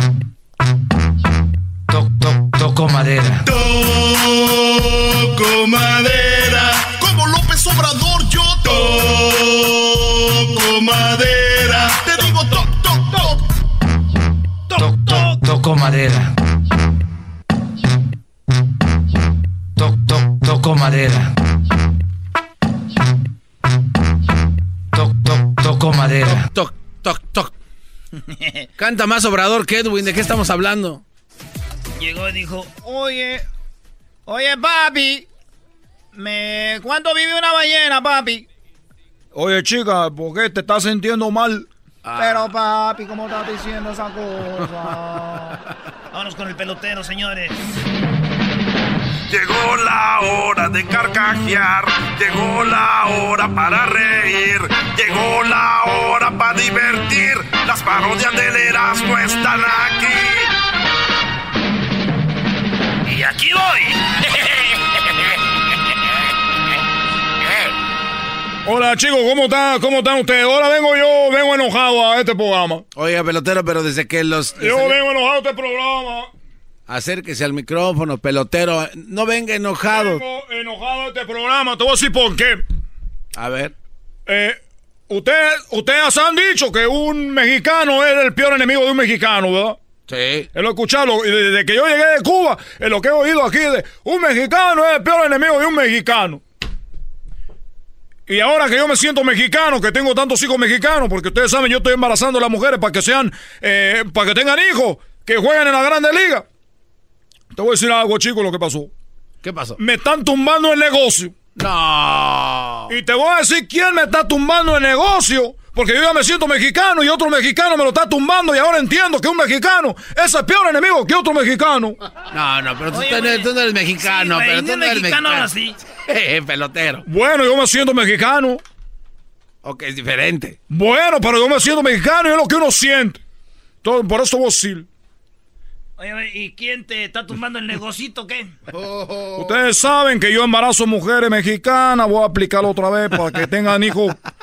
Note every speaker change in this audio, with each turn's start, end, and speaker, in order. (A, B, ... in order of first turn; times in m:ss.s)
0:01.9-0:03.4 A
0:03.5-0:13.5 B
0:14.7-0:15.4 C
0:14.8-0:16.3 A
0:19.8-0:21.3 A
0:24.9-0:26.5 A
0:26.3-0:27.5 D
0:28.2-0:28.7 C
0:28.8-0:31.0 D
0:32.0-0:33.4 C
0:34.3-0:35.2 C
0:36.1-0:38.4 C
0:39.3-0:41.7 E
0:42.0-0:42.5 D
0:42.2-0:42.8 C
0:43.4-0:43.8 C
0:46.1-0:47.8 C
0:49.3-1:00.5 F
1:03.0-1:04.5 C
1:08.6-1:12.8 E
1:12.9-1:15.0 D
1:14.6-1:16.3 E
1:16.9-1:20.2 D
1:19.8-1:22.6 E
1:23.3-1:23.7 D
1:24.3-1:29.8 E
1:30.1-1:30.5 D
1:30.5-1:36.4 E
1:38.3-1:46.4 E
1:47.5-1:48.9 E
1:49.4-1:49.8 D
1:49.8-1:51.3 E
1:51.6-1:52.9 D
1:52.9-2:02.0 E
2:02.3-2:07.0 D
2:02.9-2:05.8 C
2:07.1-2:08.6 E
2:09.6-2:10.6 D
2:10.7-2:13.2 E
2:13.8-2:14.9 E
2:16.0-2:18.5 C
2:19.4-2:24.2 E